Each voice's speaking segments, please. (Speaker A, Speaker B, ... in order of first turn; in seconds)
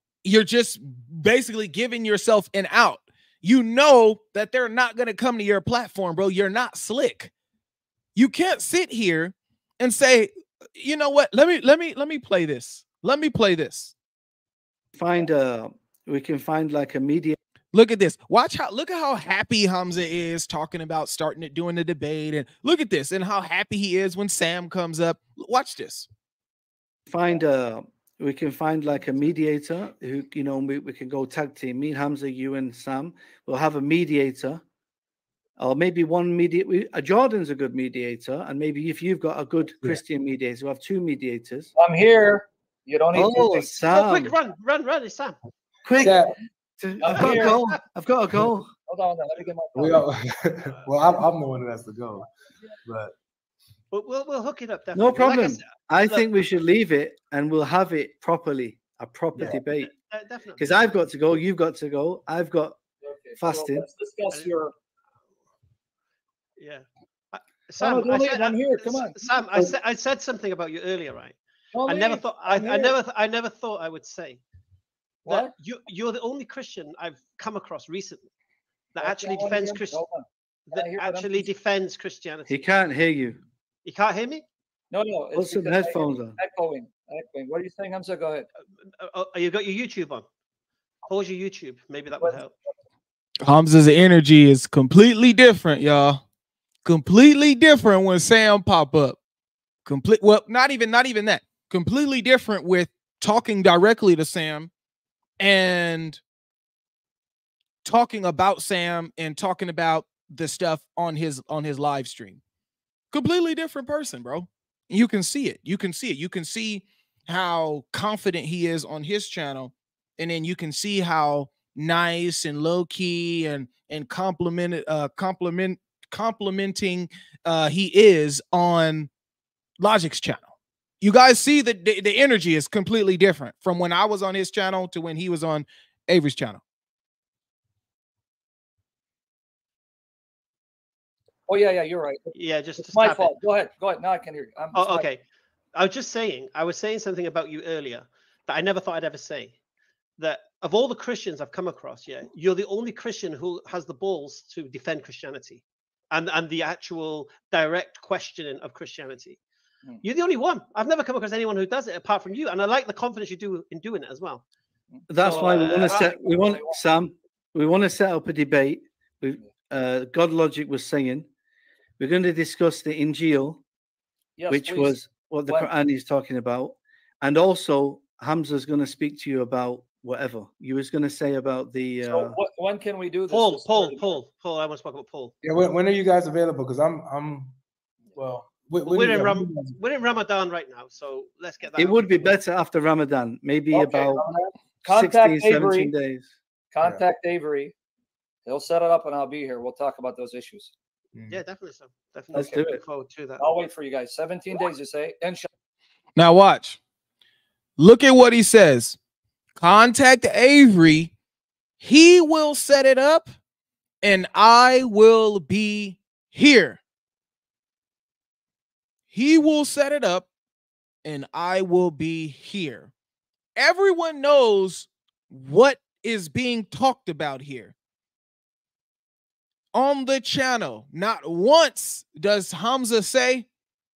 Speaker A: 0.2-7.3, 8.2-13.9, 17.7-26.1, 93.4-96.2, 96.8-99.2, 99.8-104.7, 105.4-106.2, 107.8-112.4, 113.1-129.1, 129.8-130.5, 131.0-136.6, 206.2-206.8, 207.8-209.0, 209.6-211.1, 211.8-213.3, 214.0-216.8, 219.1-220.3, 221.0-222.9, 223.6-227.7, 229.7-233.5
Speaker B: 15.0-17.4, 27.1-34.6, 35.6-41.7, 43.1-44.3, 45.9-48.7, 54.9-59.9, 60.6-62.8, 63.4-63.9, 82.5-83.4, 85.3-86.4, 165.1-171.3, 172.0-173.6, 174.5-182.4, 191.8-194.3, 194.8-196.3, 202.3-202.8
Speaker C: 41.8-43.7, 47.0-47.7, 48.9-50.1, 63.0-64.7, 67.8-69.8, 71.7-73.0, 75.3-75.5, 79.0-81.5, 84.9-88.5, 141.5-145.1, 164.9-166.8, 174.4-175.7, 182.1-184.2, 193.7-194.1, 194.8-195.9, 196.7-197.7, 198.5-200.7, 203.4-205.5
Speaker D: 43.9-45.4, 47.2-47.7, 53.9-56.3, 59.4-60.6, 66.6-71.4, 71.9-74.4, 75.3-78.3, 79.0-80.0, 80.7-82.7, 83.8-84.4, 89.0-90.2, 91.1-92.5, 142.4-143.3, 144.8-145.2, 145.8-149.6, 150.2-159.4, 160.0-164.4, 165.3-166.1, 183.3-185.3, 188.9-192.3, 201.3-203.6
Speaker E: 46.0-46.4, 49.8-52.3, 52.9-53.1, 185.4-187.6, 188.2-189.8, 194.1-194.5, 201.2-201.4